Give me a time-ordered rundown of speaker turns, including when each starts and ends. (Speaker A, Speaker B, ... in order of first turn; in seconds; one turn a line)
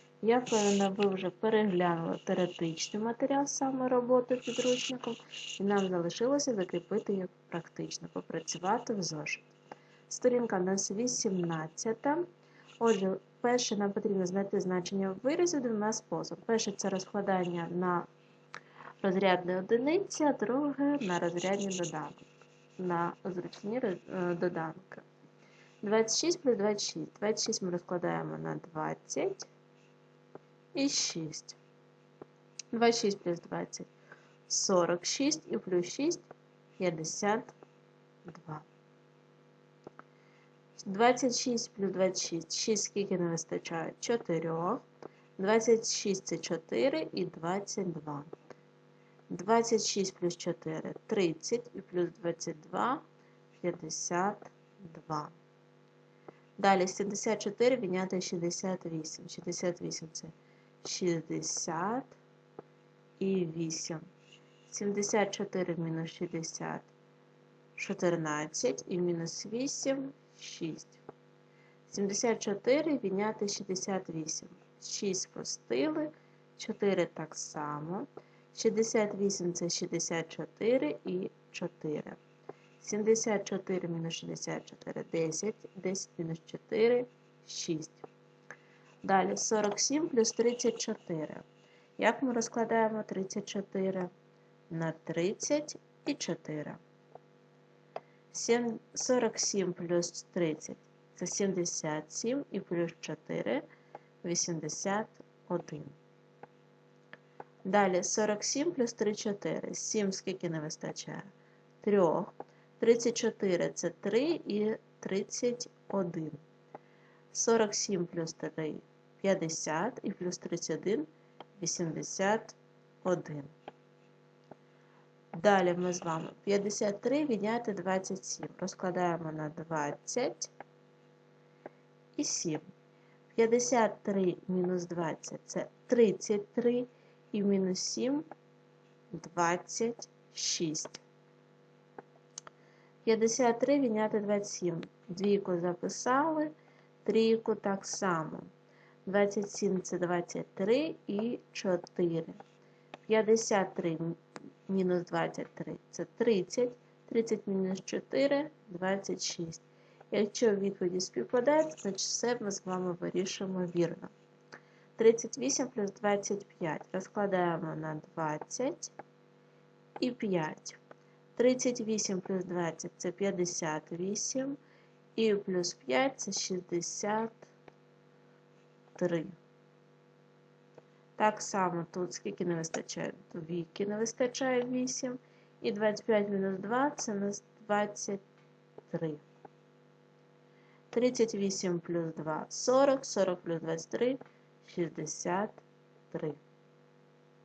Speaker A: 0.2-9.5
Speaker A: 10.1-12.2
Speaker A: 12.8-18.1
Speaker A: 19.0-25.0
Speaker A: 25.8-29.5
Speaker A: 30.7-31.6
Speaker A: 32.7-33.9
Speaker A: 34.5-36.2
Speaker A: 36.8-37.5
Speaker A: 38.2-38.6
Speaker A: 40.8-44.8
Speaker A: 45.4-48.3
Speaker A: 49.3-53.0
Speaker A: 53.5-55.4
Speaker A: 56.6-62.2
Speaker A: 63.2-64.0
Speaker A: 64.7-66.9
Speaker A: 67.8-71.0
Speaker A: 71.9-82.2
Speaker A: 82.8-88.1
Speaker A: 89.0-91.4
Speaker A: 92.0-94.1
Speaker A: 94.7-96.8
Speaker A: 98.3-103.6
Speaker A: 104.2-106.0
Speaker A: 107.7-116.4
Speaker A: 117.3-123.5
Speaker A: 125.3-130.5
Speaker A: 132.2-132.6
Speaker A: 133.3-138.2
Speaker A: 139.1-141.0
Speaker A: 143.0-146.5
Speaker A: 147.0-148.5
Speaker A: 149.1-152.4
Speaker A: 153.1-164.1
Speaker A: 165.0-168.9
Speaker A: 170.0-170.8
Speaker A: 171.3-174.6
Speaker A: 175.2-177.5
Speaker A: 178.9-179.4
Speaker A: 181.2-188.2
Speaker A: 188.9-189.2
Speaker A: 190.9-196.4